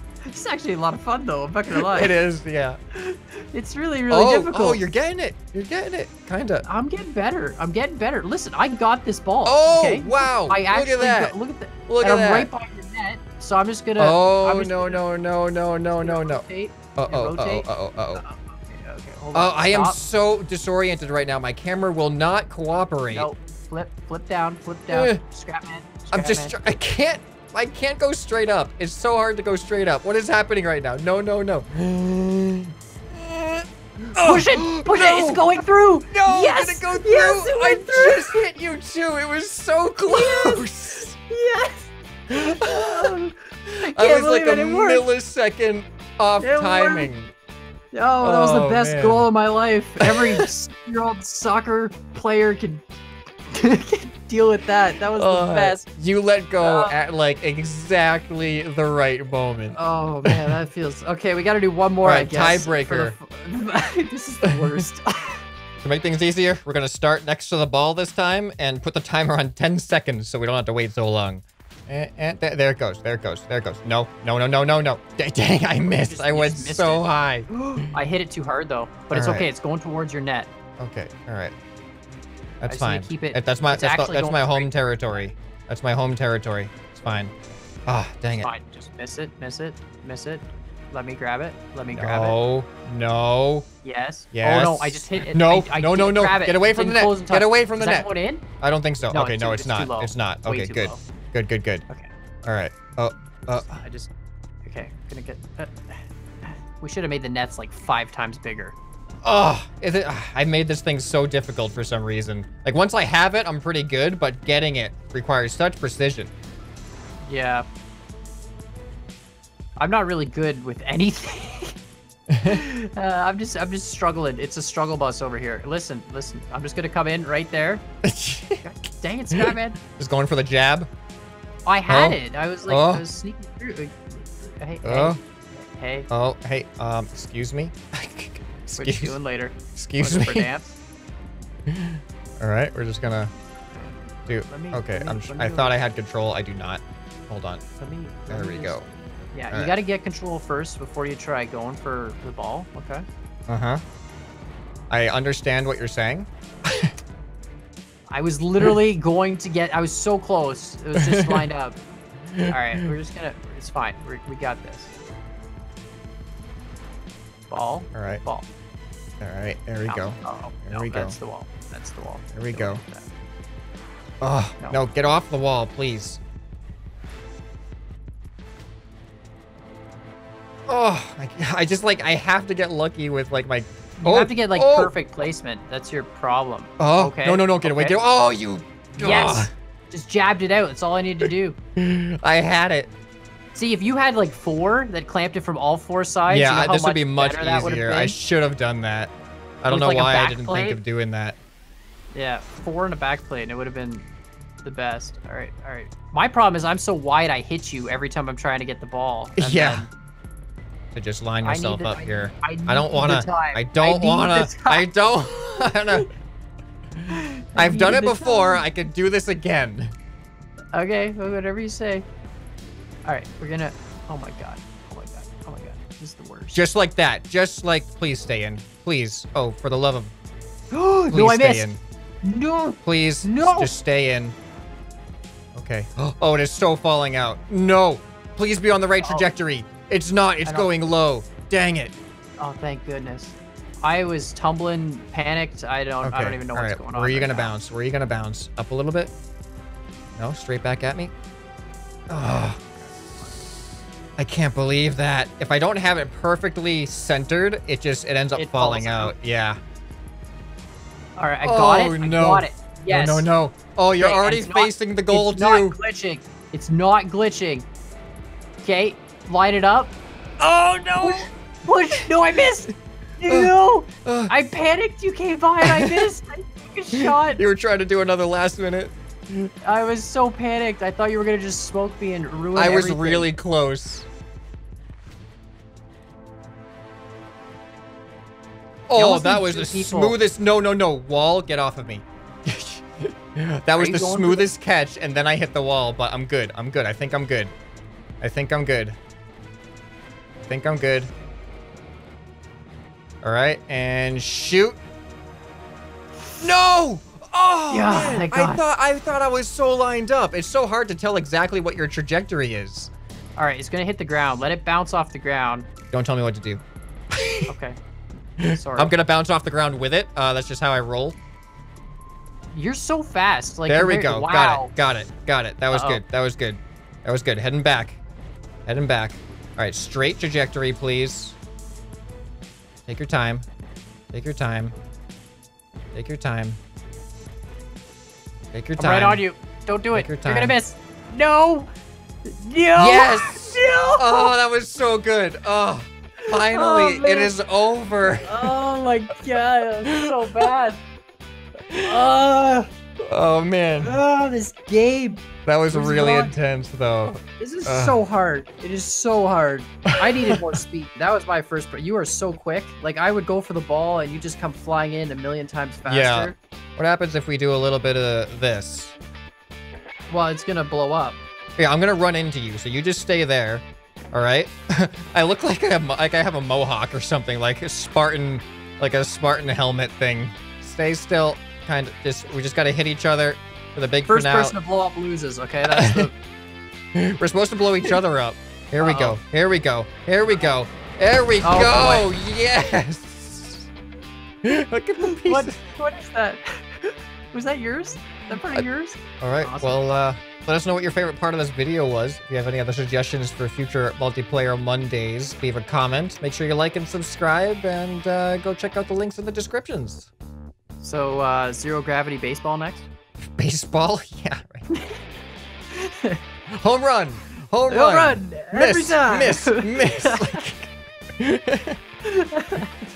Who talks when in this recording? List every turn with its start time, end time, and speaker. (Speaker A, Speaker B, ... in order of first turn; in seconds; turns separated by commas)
Speaker A: 0.2-2.1, Speaker B: 1.7-2.8, Speaker A: 2.9-4.8, Speaker B: 4.1-6.7, Speaker A: 6.7-15.0, Speaker B: 9.4-11.3, Speaker B: 11.9-12.5, Speaker B: 14.0-16.4, Speaker A: 16.0-20.0, Speaker B: 17.0-18.2, Speaker B: 19.3-23.3, Speaker A: 23.1-26.6, Speaker B: 24.9-25.2, Speaker B: 26.1-35.6, Speaker A: 34.2-38.5, Speaker B: 36.1-41.1, Speaker A: 40.1-45.1, Speaker B: 42.3-43.2, Speaker B: 43.7-47.3, Speaker A: 46.4-47.1, Speaker A: 47.9-52.8, Speaker B: 48.2-49.3, Speaker B: 50.0-50.5, Speaker A: 53.5-55.9, Speaker B: 55.1-60.6, Speaker A: 56.6-57.0, Speaker A: 59.8-65.4, Speaker B: 62.0-63.1, Speaker B: 64.5-64.7, Speaker B: 65.8-77.9, Speaker A: 75.8-80.5, Speaker B: 79.1-79.5, Speaker B: 80.8-81.5, Speaker B: 82.6-87.3, Speaker A: 82.7-85.2, Speaker B: 87.9-88.5, Speaker A: 88.4-92.4, Speaker B: 91.9-93.7, Speaker A: 93.8-98.4, Speaker B: 94.3-98.1, Speaker B: 98.6-101.8, Speaker A: 99.1-101.0, Speaker B: 102.4-103.8, Speaker A: 103.5-104.1, Speaker A: 104.7-108.8, Speaker B: 109.2-116.3, Speaker A: 117.2-117.7, Speaker A: 119.8-121.8, Speaker B: 122.3-122.6, Speaker A: 122.4-127.8, Speaker B: 128.0-128.7, Speaker A: 128.6-129.8, Speaker B: 129.3-130.9, Speaker A: 131.7-136.1, Speaker B: 131.9-133.0, Speaker B: 134.8-135.2, Speaker B: 136.1-139.2, Speaker A: 138.8-140.8, Speaker B: 139.8-140.5, Speaker B: 141.7-143.3, Speaker B: 144.3-147.6, Speaker A: 144.4-145.8, Speaker A: 147.8-148.8, Speaker B: 148.3-148.8, Speaker A: 149.3-153.1, Speaker B: 153.5-153.8, Speaker B: 154.9-156.9, Speaker A: 158.1-161.8, Speaker B: 161.1-161.5, Speaker B: 162.3-162.9, Speaker A: 162.4-164.9, Speaker A: 167.5-168.5, Speaker B: 167.9-168.2, Speaker B: 169.2-171.2, Speaker A: 169.9-173.1, Speaker B: 172.3-172.8, Speaker B: 174.2-176.2, Speaker B: 180.7-184.9, Speaker A: 184.0-188.0, Speaker B: 186.8-189.5, Speaker A: 189.0-191.6, Speaker B: 191.3-192.9, Speaker A: 193.6-198.2, Speaker B: 196.3-201.4, Speaker A: 199.7-200.8, Speaker A: 202.1-204.1, Speaker A: 204.6-209.9, Speaker B: 209.4-209.9, Speaker B: 210.9-216.1, Speaker A: 211.4-214.9, Speaker A: 217.1-218.6, Speaker B: 217.6-219.9, Speaker A: 220.7-222.1, Speaker A: 223.1-226.6, Speaker B: 226.5-230.1, Speaker A: 230.7-231.7, Speaker B: 231.1-231.8, Speaker A: 232.2-233.7, Speaker B: 232.8-234.4, Speaker B: 235.5-242.0, Speaker A: 239.0-239.3, Speaker A: 240.4-240.8, Speaker A: 242.4-247.6, Speaker B: 246.0-249.1, Speaker B: 250.2-251.1, Speaker B: 252.1-259.6, Speaker A: 258.4-259.1, Speaker A: 261.2-263.3, Speaker B: 261.4-265.8, Speaker A: 264.0-267.7, Speaker A: 268.6-269.9, Speaker B: 270.4-271.3, Speaker A: 271.0-277.4, Speaker B: 274.1-274.3, Speaker B: 275.6-276.1, Speaker B: 276.9-279.5, Speaker A: 279.6-283.3, Speaker B: 282.6-284.1, Speaker B: 288.9-297.5, Speaker A: 288.9-290.2, Speaker A: 293.8-294.5, Speaker B: 298.2-299.0, Speaker B: 300.5-301.1, Speaker B: 303.2-304.8, Speaker B: 306.4-312.9, Speaker A: 307.7-308.6, Speaker A: 313.4-315.7, Speaker B: 315.9-317.5, Speaker A: 317.5-317.8, Speaker B: 318.4-321.2, Speaker A: 318.5-318.9, Speaker A: 322.5-324.7, Speaker B: 323.7-328.0, Speaker A: 325.7-326.0, Speaker B: 328.7-331.4, Speaker B: 332.9-333.5, Speaker B: 334.1-334.8, Speaker B: 335.9-336.6, Speaker B: 338.5-339.2, Speaker A: 338.8-341.7, Speaker B: 339.9-340.6, Speaker A: 342.2-344.3, Speaker B: 342.8-348.5, Speaker A: 346.3-347.4, Speaker A: 348.2-350.8, Speaker B: 349.9-350.5, Speaker B: 351.7-352.0, Speaker A: 351.9-352.7, Speaker B: 353.1-354.0, Speaker A: 353.8-356.4, Speaker B: 355.4-358.0, Speaker A: 357.4-366.4, Speaker B: 359.9-360.6, Speaker B: 365.9-368.9, Speaker A: 370.1-371.2, Speaker B: 371.6-384.5, Speaker A: 384.1-386.1, Speaker B: 385.6-386.1, Speaker B: 386.9-393.7, Speaker A: 388.8-389.2, Speaker A: 391.4-392.1, Speaker B: 394.4-395.6, Speaker A: 395.0-399.8, Speaker B: 399.2-410.1, Speaker A: 410.8-412.9, Speaker B: 413.3-414.6, Speaker A: 414.7-415.0, Speaker A: 415.7-416.2, Speaker B: 416.5-421.8, Speaker A: 417.7-420.4, Speaker A: 422.1-422.7